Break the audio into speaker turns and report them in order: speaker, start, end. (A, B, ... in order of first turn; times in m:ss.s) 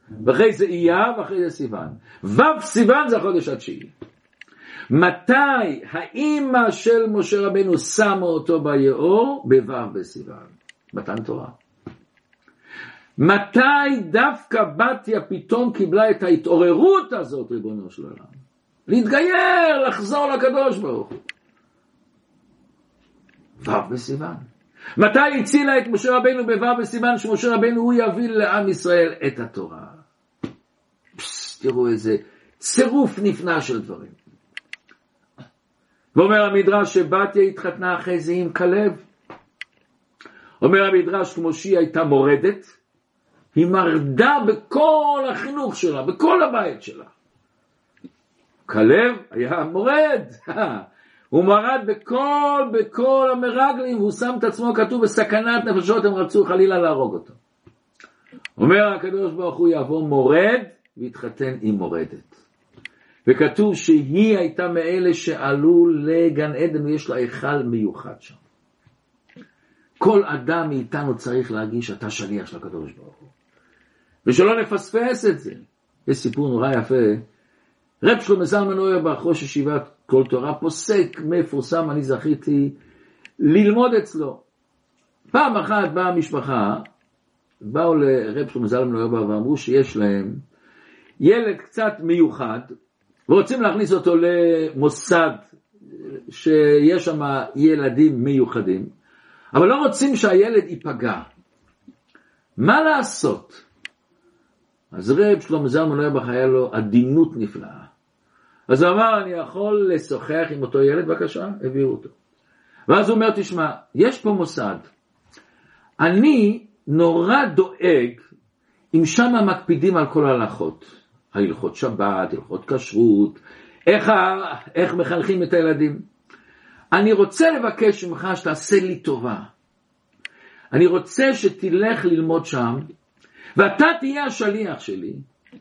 0:00.2-0:03.9 A
0:04.9-0:11.6 A
0:13.2-0:18.3 A
0:18.9-0:21.2 A
0:23.6-0:30.0 A
0:31.2-0:34.2 A
0:36.1-0:39.0 A
0:40.6-0:42.7 A
0:43.5-0:47.1 A
0:48.6-0:57.4 A
0:58.6-1:02.4 A
1:03.2-1:08.4 A
1:10.0-1:13.3 A
1:14.2-1:17.2 A
1:18.0-1:22.8 A
1:23.4-1:24.4 A
1:25.3-1:26.9 A
1:27.6-1:30.4 A
1:31.2-1:32.7 A
1:33.3-1:35.4 A
1:36.1-1:38.9 A
1:39.5-1:41.2 A
1:42.6-1:43.6 A
1:44.9-1:47.9 A
1:48.7-1:52.1 A
1:52.9-1:54.9 A
1:56.0-1:58.2 A
1:58.9-2:06.0 A
2:06.9-2:09.5 A
2:10.7-2:12.9 A
2:13.6-2:15.2 A